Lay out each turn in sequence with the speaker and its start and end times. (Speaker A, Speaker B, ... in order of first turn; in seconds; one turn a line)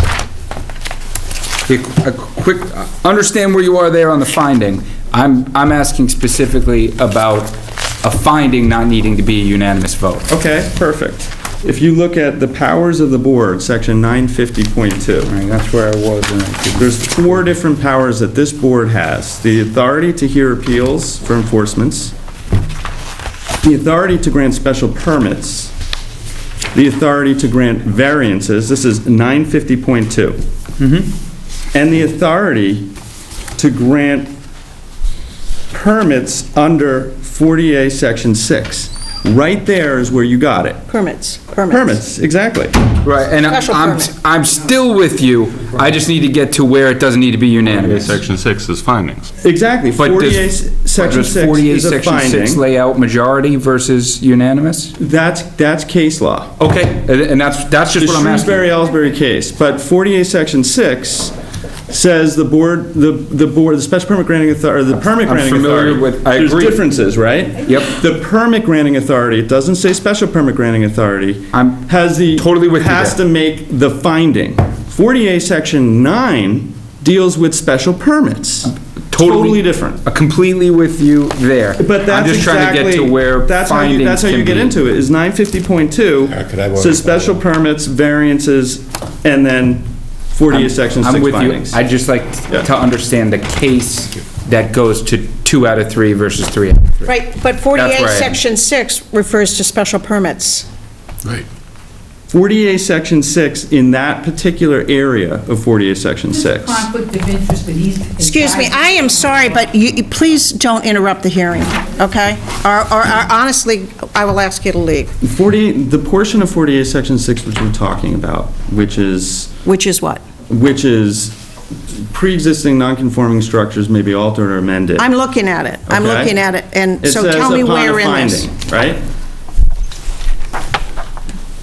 Speaker A: 1.7-10.3
Speaker B: 10.3-15.3
Speaker A: 15.3-17.5
Speaker B: 16.8-22.1
Speaker B: 23.6-25.7
Speaker B: 26.7-30.4
Speaker A: 30.8-31.1
Speaker B: 31.7-32.9
Speaker B: 33.6-34.3
Speaker B: 35.7-40.9
Speaker C: 40.9-42.0
Speaker B: 41.7-42.8
Speaker A: 43.0-48.2
Speaker C: 43.5-44.1
Speaker D: 47.8-49.3
Speaker B: 49.4-52.6
Speaker A: 50.0-54.9
Speaker B: 55.0-56.5
Speaker A: 56.6-58.7
Speaker B: 58.0-61.3
Speaker B: 61.9-80.0
Speaker A: 64.9-66.8
Speaker A: 67.7-68.0
Speaker A: 71.5-73.2
Speaker A: 79.1-84.8
Speaker B: 81.8-91.8
Speaker D: 86.4-87.3
Speaker A: 90.5-97.2
Speaker C: 97.1-100.7
Speaker A: 97.7-98.4
Speaker B: 102.3-106.8
Speaker E: 106.4-109.5
Speaker C: 108.2-115.1
Speaker B: 115.2-119.5
Speaker C: 119.7-120.2
Speaker B: 120.5-121.3
Speaker B: 121.9-125.1
Speaker C: 125.0-128.5
Speaker B: 125.9-126.4
Speaker B: 127.0-129.0